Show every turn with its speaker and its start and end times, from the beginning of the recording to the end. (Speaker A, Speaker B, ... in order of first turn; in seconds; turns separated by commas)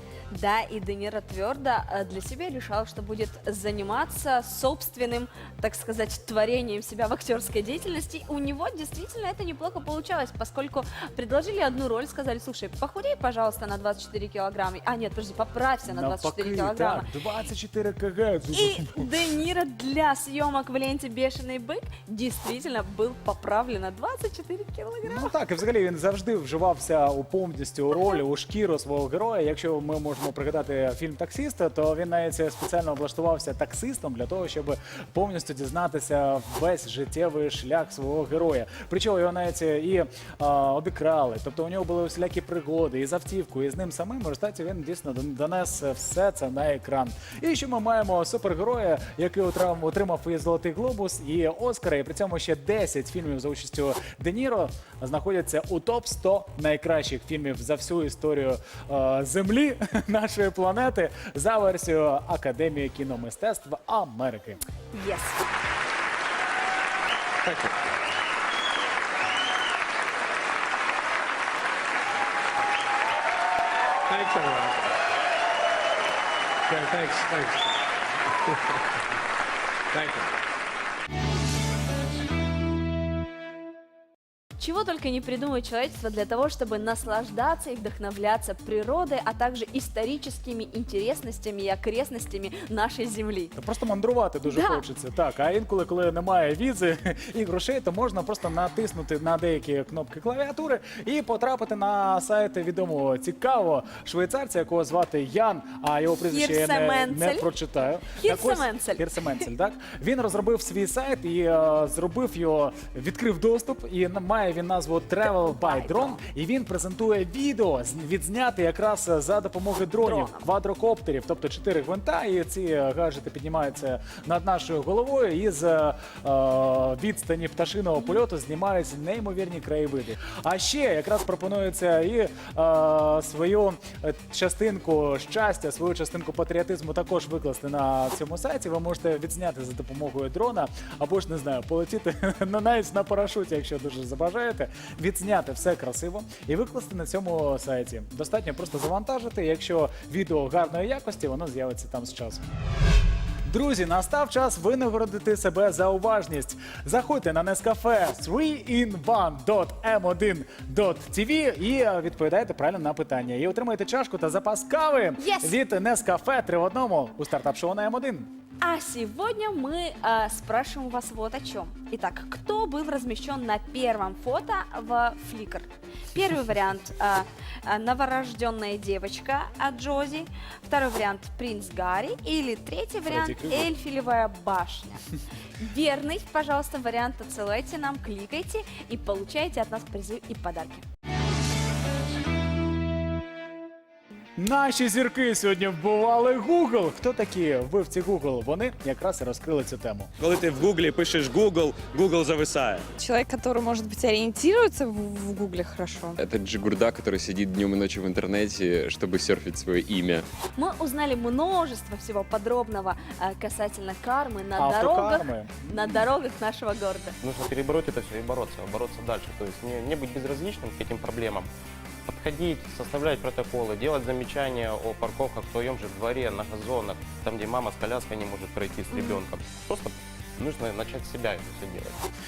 Speaker A: 0.3-17.1, Speaker B: 15.8-19.1, Speaker A: 18.5-25.3, Speaker B: 25.0-64.6, Speaker A: 64.9-65.4, Speaker C: 74.1-74.8, Speaker C: 76.7-77.6, Speaker C: 79.9-80.3, Speaker A: 84.6-93.5, Speaker B: 93.6-152.4, Speaker A: 94.5-94.8, Speaker A: 106.3-107.5, Speaker A: 108.0-109.1, Speaker A: 115.2-116.2, Speaker A: 120.0-120.5, Speaker B: 153.5-168.3, Speaker A: 165.2-165.6, Speaker A: 168.6-185.0, Speaker B: 183.1-183.7, Speaker A: 185.6-190.8, Speaker B: 194.4-200.1, Speaker D: 200.2-202.9, Speaker E: 203.0-206.2, Speaker F: 206.2-210.3, Speaker A: 210.6-217.2, Speaker B: 214.6-216.1, Speaker G: 217.2-221.5, Speaker G: 222.1-232.0